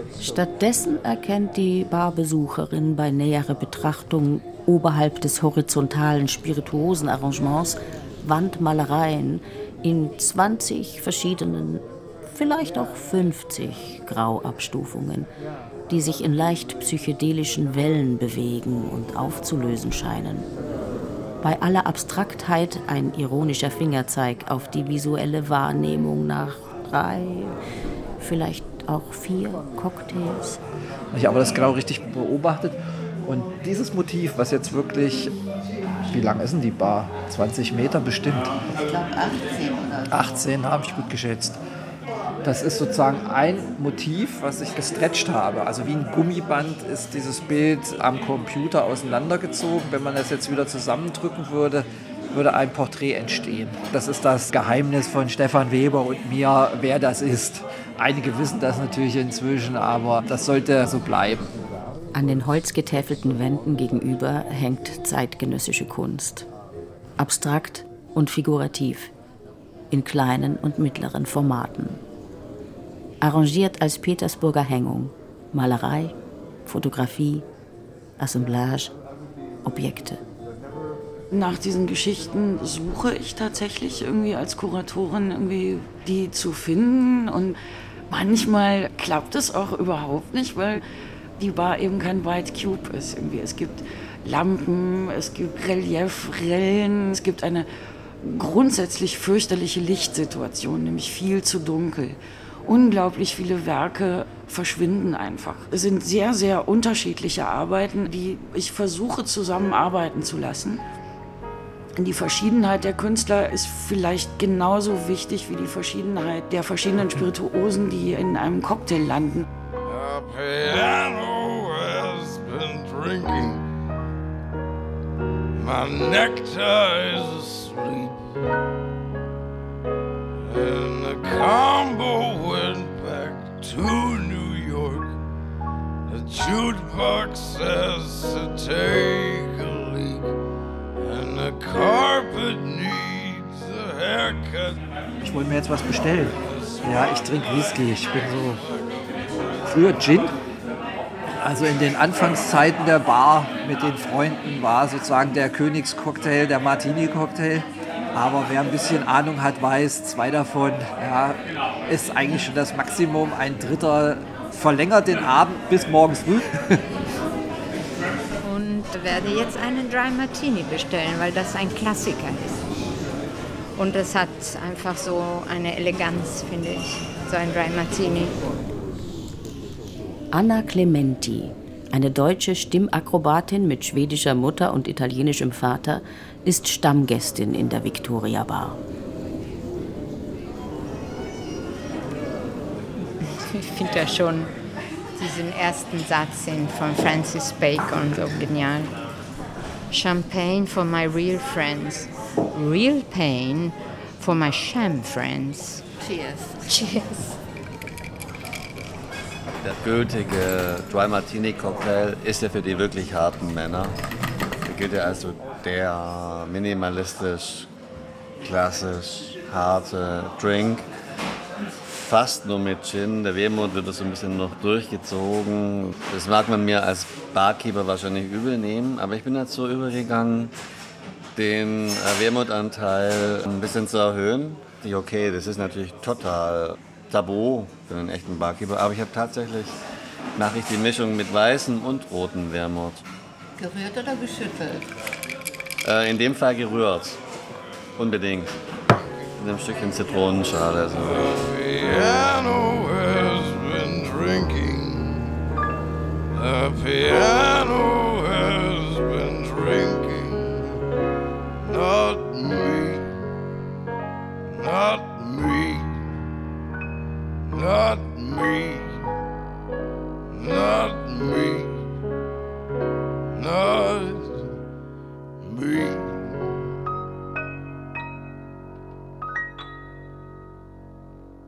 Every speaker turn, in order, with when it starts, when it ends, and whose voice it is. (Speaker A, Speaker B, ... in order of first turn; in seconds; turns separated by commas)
Speaker A: 0.2-15.3, Speaker A: 15.9-20.5, Speaker A: 21.4-27.6, Speaker A: 28.2-30.6, Speaker B: 31.1-35.3, Speaker B: 36.1-38.5, Speaker C: 38.7-40.4, Speaker B: 40.1-41.6, Speaker B: 42.4-61.5, Speaker A: 62.1-66.5, Speaker A: 67.2-69.1, Speaker A: 69.9-72.0, Speaker A: 73.2-76.2, Speaker A: 76.7-77.5, Speaker A: 78.2-78.9, Speaker A: 79.6-80.2, Speaker D: 81.3-87.6, Speaker D: 88.1-90.8, Speaker D: 91.4-97.7, Speaker D: 98.2-110.8, Speaker D: 112.0-119.5, Speaker E: 119.8-123.6, Speaker E: 125.5-128.3, Speaker E: 130.4-135.2, Speaker E: 136.1-140.3, Speaker E: 141.0-144.8, Speaker B: 145.2-148.6, Speaker E: 146.5-147.0, Speaker B: 149.7-150.4, Speaker B: 151.4-166.8, Speaker F: 168.4-172.6, Speaker F: 173.8-178.4, Speaker A: 180.3-188.8, Speaker F: 193.3-194.5, Speaker F: 195.2-198.9, Speaker F: 199.9-205.8, Speaker C: 206.0-206.6, Speaker F: 206.7-207.3, Speaker G: 209.6-214.0, Speaker G: 214.7-217.7, Speaker G: 218.4-220.9, Speaker G: 222.0-230.5, Speaker G: 231.4-239.7, Speaker G: 240.4-243.0, Speaker C: 243.6-244.9, Speaker G: 245.8-247.2, Speaker G: 248.0-248.5, Speaker G: 249.4-251.2, Speaker E: 251.1-255.3, Speaker E: 256.4-260.8, Speaker E: 261.6-263.1, Speaker E: 264.5-266.0, Speaker E: 267.5-269.1, Speaker E: 270.3-271.8, Speaker E: 273.3-274.5, Speaker E: 275.4-276.4